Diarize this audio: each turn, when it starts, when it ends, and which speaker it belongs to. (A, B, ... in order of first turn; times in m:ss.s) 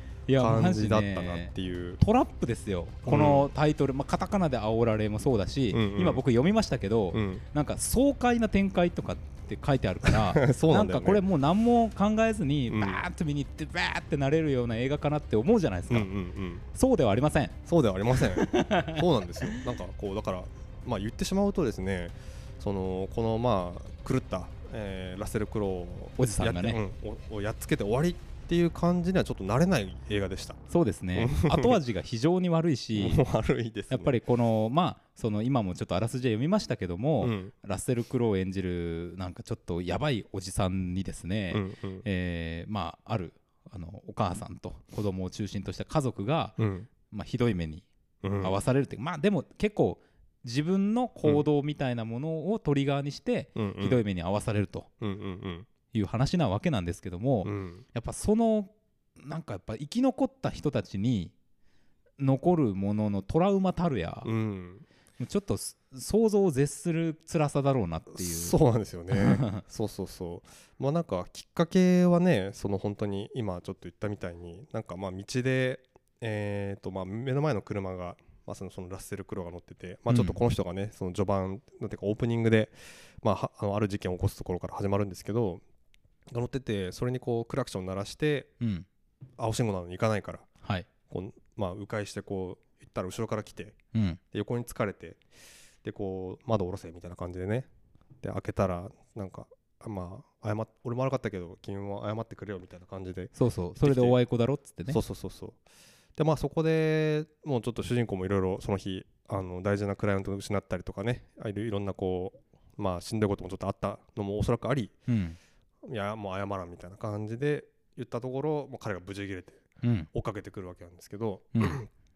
0:00.3-0:16.1 A
0:00.4-0:02.0 B
0:03.1-0:03.5 B
0:05.7-0:06.2 B
0:07.1-0:07.4 B
0:10.0-0:11.2 B
0:12.7-0:13.0 B
0:15.9-0:16.6 B
0:16.7-0:17.6 A
0:17.7-0:30.6 B
0:18.2-0:19.6 A
0:26.2-0:26.8 A
0:30.7-0:33.2 A
0:31.2-0:31.8 B
0:33.0-0:34.2 B
0:33.9-0:47.9 A
0:37.2-0:37.5 B
0:41.5-0:42.1 B
0:46.6-0:46.9 B
0:48.2-0:48.6 B
0:48.4-0:54.9 A
0:53.6-0:54.0 B
0:55.0-0:55.7 B
0:55.9-1:01.3 A
0:57.4-0:57.8 B
1:02.2-1:04.3 A
1:04.2-1:04.8 B
1:05.2-1:08.6 A
1:08.1-1:25.6 B
1:09.1-1:09.6 A
1:20.1-1:20.4 A
1:26.3-1:28.5 B
1:28.6-1:28.9 A
1:29.4-1:30.5 B
1:31.1-1:33.8 B
1:33.9-1:34.2 A
1:34.3-1:35.2 B
1:35.8-1:37.7 B
1:38.2-1:44.2 B
1:43.4-1:45.0 A
1:44.9-1:45.6 B
1:46.2-1:55.0 B
1:55.1-1:55.4 A
1:55.8-2:01.9 B
1:59.8-2:00.1 A
2:01.6-2:01.8 A